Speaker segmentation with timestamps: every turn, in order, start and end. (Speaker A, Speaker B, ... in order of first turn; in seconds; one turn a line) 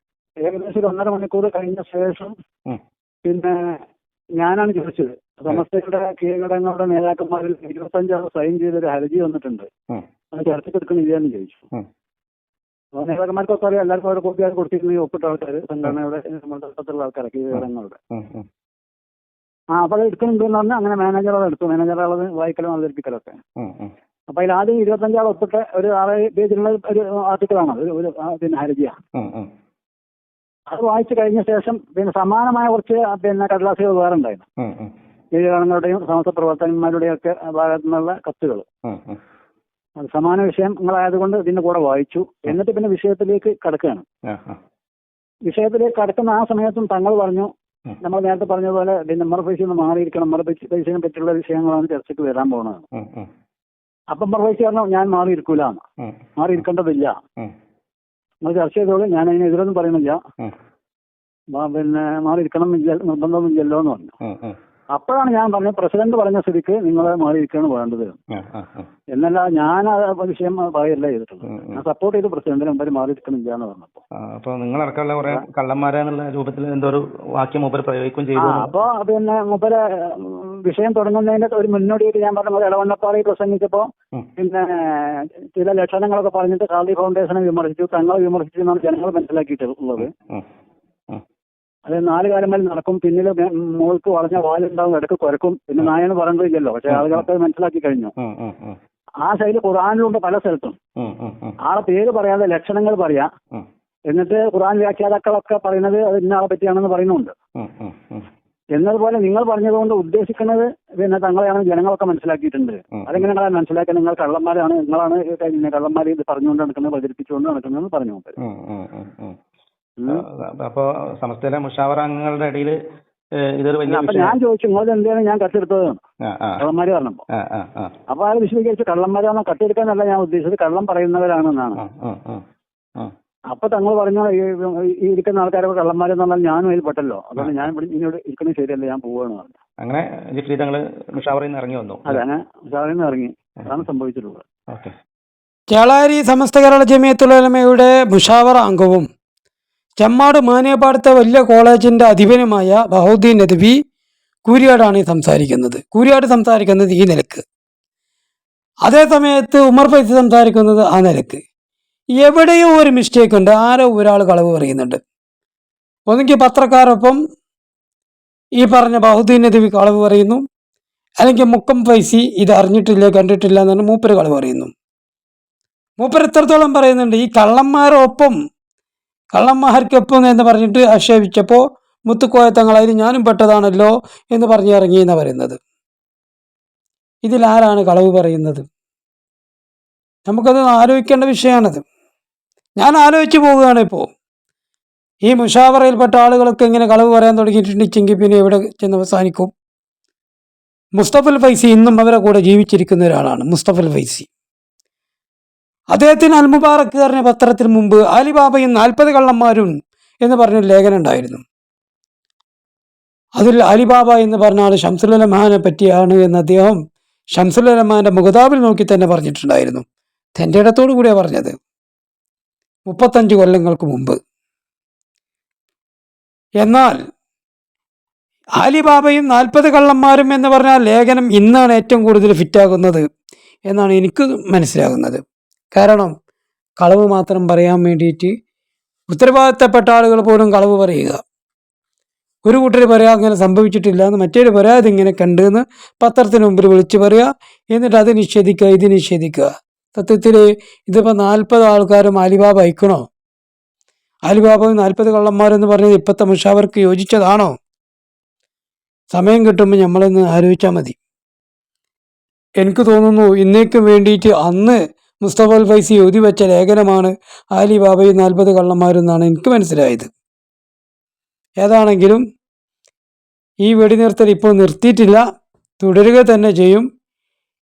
Speaker A: 0.4-2.3
Speaker A: 3.2-3.5
Speaker A: 4.4-9.7
Speaker A: 10.3-11.6
Speaker A: 13.0-18.0
Speaker B: 18.1-18.4
Speaker A: 19.7-23.4
Speaker B: 23.6-23.9
Speaker A: 24.3-28.9
Speaker B: 29.1-29.5
Speaker A: 30.7-34.4
Speaker B: 34.6-34.9
Speaker A: 35.4-38.6
Speaker B: 38.9-39.2
Speaker A: 40.0-44.0
Speaker B: 44.3-44.6
Speaker A: 45.5-47.5
Speaker A: 48.0-52.8
Speaker B: 52.9-53.3
Speaker A: 54.1-55.8
Speaker A: 56.4-57.1
Speaker A: 58.4-60.2
Speaker A: 61.5-64.1
Speaker B: 64.2-64.5
Speaker A: 64.9-68.2
Speaker B: 68.3-68.9
Speaker A: 69.1-74.0
Speaker B: 71.5-71.8
Speaker B: 74.4-78.7
Speaker A: 78.4-90.1
Speaker A: 91.9-98.1
Speaker B: 96.9-97.2
Speaker B: 98.2-98.8
Speaker A: 99.2-100.8
Speaker B: 101.0-101.5
Speaker A: 101.6-103.3
Speaker A: 104.1-107.3
Speaker B: 107.6-108.3
Speaker A: 108.7-118.3
Speaker B: 113.0-113.2
Speaker B: 118.4-119.4
Speaker B: 120.1-122.8
Speaker B: 123.6-124.3
Speaker A: 123.9-126.0
Speaker B: 126.3-126.6
Speaker A: 126.6-127.2
Speaker B: 127.4-127.9
Speaker A: 128.1-131.8
Speaker B: 131.8-132.4
Speaker A: 133.5-139.5
Speaker B: 139.8-142.2
Speaker A: 142.1-144.4
Speaker C: 145.7-149.1
Speaker C: 150.0-153.7
Speaker C: 154.4-157.4
Speaker C: 158.8-161.4
Speaker C: 162.2-165.0
Speaker C: 166.1-167.2
Speaker C: 168.6-170.4
Speaker C: 171.2-174.7
Speaker C: 176.0-178.3
Speaker C: 179.3-185.6
Speaker C: 187.2-188.7
Speaker C: 190.3-191.8
Speaker C: 192.8-194.1
Speaker C: 195.2-199.5
Speaker C: 201.0-204.3
Speaker C: 205.9-209.7
Speaker C: 210.2-211.4
Speaker C: 213.4-216.8
Speaker C: 217.3-219.8
Speaker C: 220.4-221.5
Speaker C: 222.9-224.2
Speaker C: 226.6-227.0
Speaker C: 228.6-233.0
Speaker C: 233.7-235.2
Speaker C: 235.7-236.1
Speaker C: 236.8-238.3
Speaker C: 239.1-241.2
Speaker C: 242.4-253.0
Speaker C: 254.3-257.5
Speaker C: 259.1-260.9
Speaker C: 262.6-270.1
Speaker C: 271.6-272.2
Speaker C: 273.6-275.2
Speaker C: 275.8-276.9